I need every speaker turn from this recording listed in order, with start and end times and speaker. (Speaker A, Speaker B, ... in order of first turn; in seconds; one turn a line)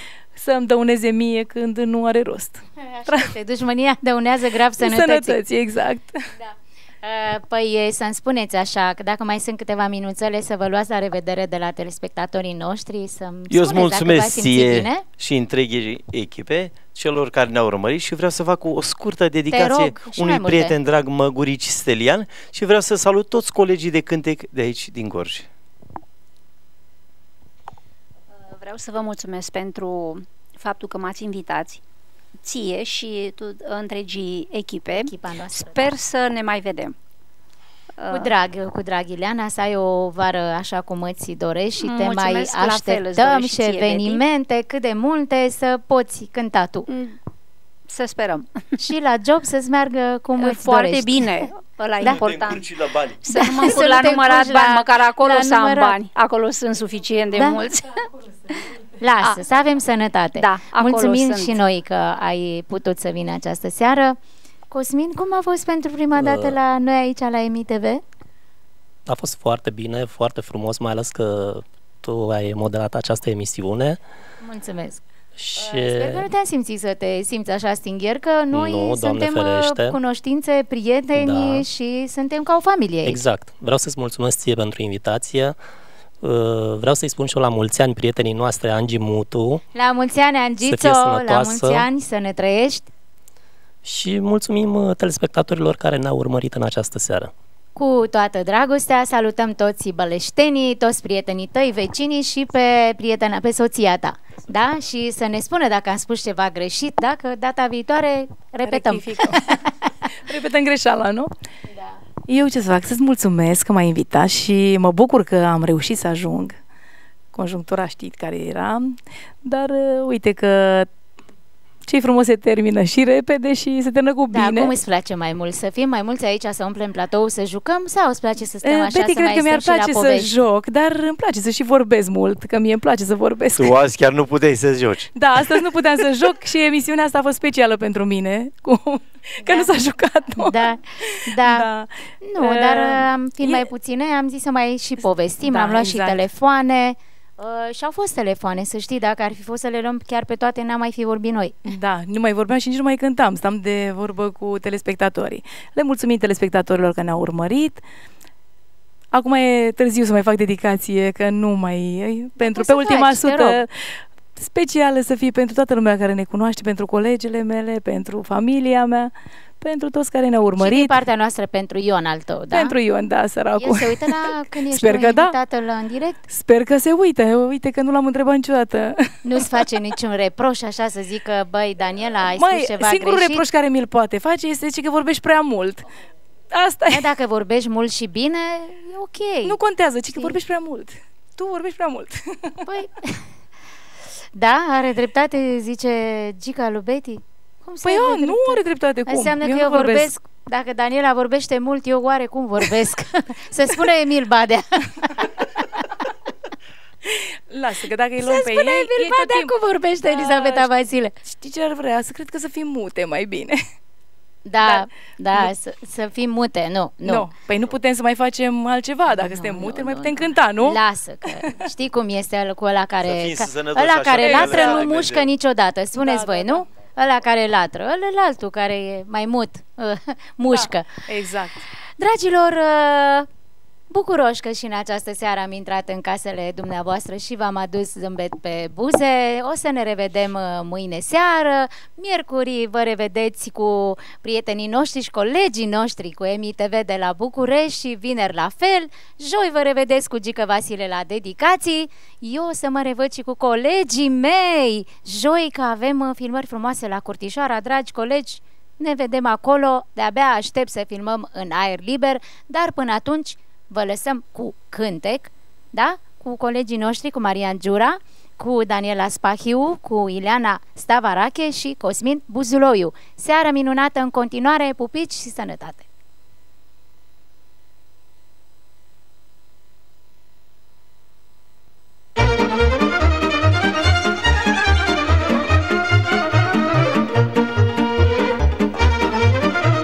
Speaker A: 0.3-3.3
Speaker B: 2.8-5.4
Speaker A: 4.8-6.2
Speaker B: 6.3-15.0
Speaker C: 13.5-25.5
Speaker B: 19.5-20.7
Speaker D: 28.4-31.8
Speaker D: 32.4-36.9
Speaker B: 35.0-35.9
Speaker D: 38.0-38.3
Speaker B: 38.1-46.9
Speaker D: 41.8-44.2
Speaker D: 46.9-47.1
Speaker D: 47.9-48.6
Speaker B: 48.8-51.4
Speaker D: 50.4-58.0
Speaker C: 52.0-53.2
Speaker B: 53.3-56.0
Speaker B: 57.3-57.6
Speaker B: 59.0-64.2
Speaker D: 60.4-61.6
Speaker B: 64.7-68.0
Speaker E: 66.2-66.5
Speaker E: 69.0-74.0
Speaker B: 74.4-75.0
Speaker E: 75.4-76.3
Speaker B: 75.5-83.2
Speaker E: 78.5-80.0
Speaker E: 81.2-81.7
Speaker E: 83.0-85.6
Speaker E: 86.2-89.6
Speaker B: 89.7-92.9
Speaker E: 90.6-91.8
Speaker E: 93.8-97.3
Speaker B: 97.8-109.7
Speaker A: 108.7-109.6
Speaker A: 110.2-111.3
Speaker A: 112.3-116.6
Speaker A: 117.3-120.9
Speaker A: 121.8-124.7
Speaker B: 124.3-130.3
Speaker A: 128.6-133.8
Speaker C: 133.6-135.1
Speaker A: 135.1-143.7
Speaker B: 139.4-139.7
Speaker B: 140.4-141.7
Speaker B: 142.2-151.7
Speaker A: 145.4-146.2
Speaker A: 151.7-157.8
Speaker A: 159.1-170.9
Speaker B: 162.4-163.6
Speaker B: 170.6-172.8
Speaker A: 172.5-174.2
Speaker B: 173.6-176.2
Speaker A: 174.7-175.3
Speaker A: 176.3-179.4
Speaker B: 179.2-183.4
Speaker A: 182.4-185.9
Speaker A: 186.5-187.1
Speaker B: 186.9-189.6
Speaker A: 189.4-192.6
Speaker B: 190.1-190.4
Speaker B: 192.6-193.2
Speaker B: 194.3-205.4
Speaker A: 197.8-200.1
Speaker A: 207.1-209.5
Speaker B: 208.2-211.1
Speaker A: 210.0-210.7
Speaker A: 211.2-213.6
Speaker B: 214.4-217.3
Speaker A: 214.6-215.5
Speaker A: 217.0-220.8
Speaker B: 219.1-231.0
Speaker C: 223.0-225.3
Speaker A: 224.2-224.9
Speaker A: 226.0-226.6
Speaker A: 230.5-231.6
Speaker B: 232.0-233.3
Speaker B: 233.9-275.8